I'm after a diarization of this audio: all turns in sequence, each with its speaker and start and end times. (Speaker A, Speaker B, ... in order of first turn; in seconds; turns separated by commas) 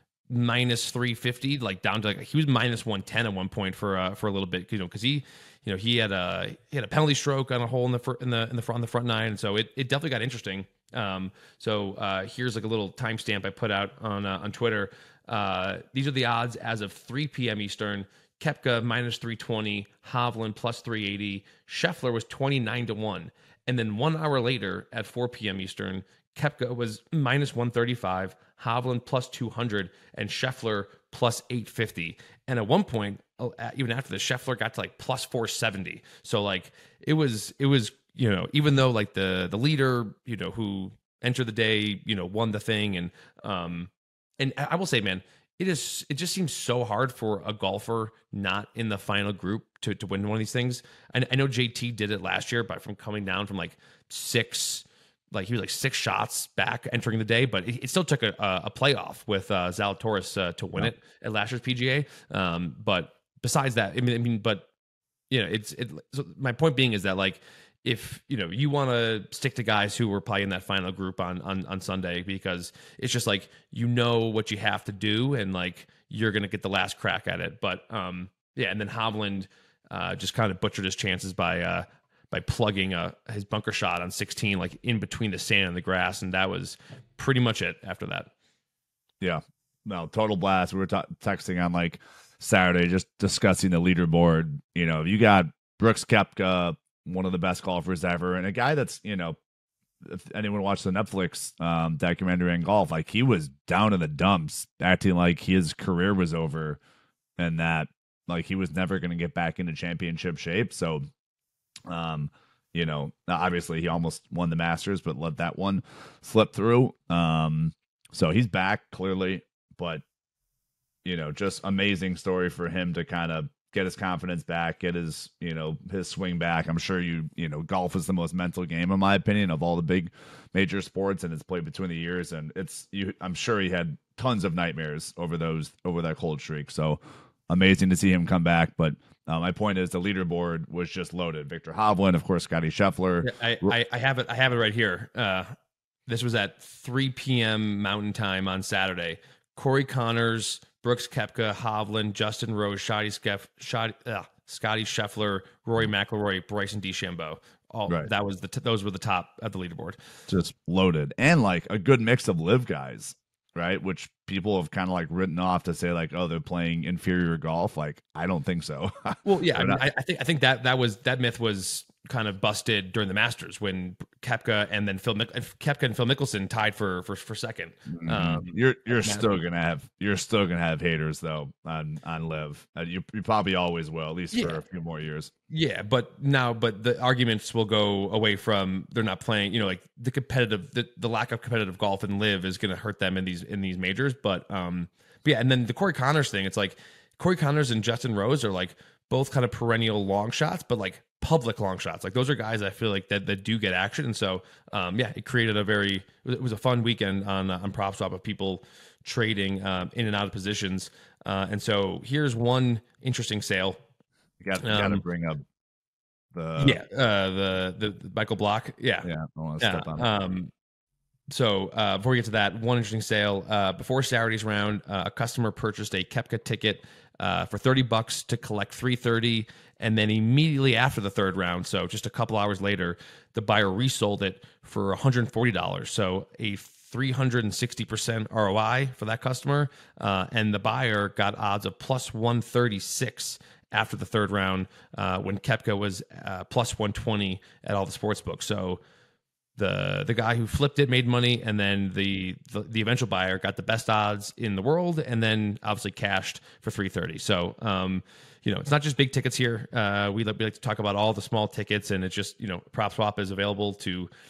Speaker A: 0.3-64.7, Speaker A: 65.3-88.3, Speaker B: 89.2-99.4, Speaker B: 100.0-106.8, Speaker B: 107.4-111.0, Speaker B: 111.9-120.0, Speaker B: 121.0-143.7, Speaker A: 143.2-145.6, Speaker A: 146.1-160.0, Speaker B: 160.3-169.8, Speaker A: 169.2-179.4, Speaker B: 177.9-185.3, Speaker A: 184.3-184.6, Speaker A: 185.5-213.8, Speaker B: 214.4-215.4, Speaker A: 214.6-215.0, Speaker B: 216.3-216.8, Speaker A: 216.6-219.1, Speaker B: 219.0-220.1, Speaker A: 219.6-220.5, Speaker A: 221.3-248.8, Speaker A: 249.6-264.1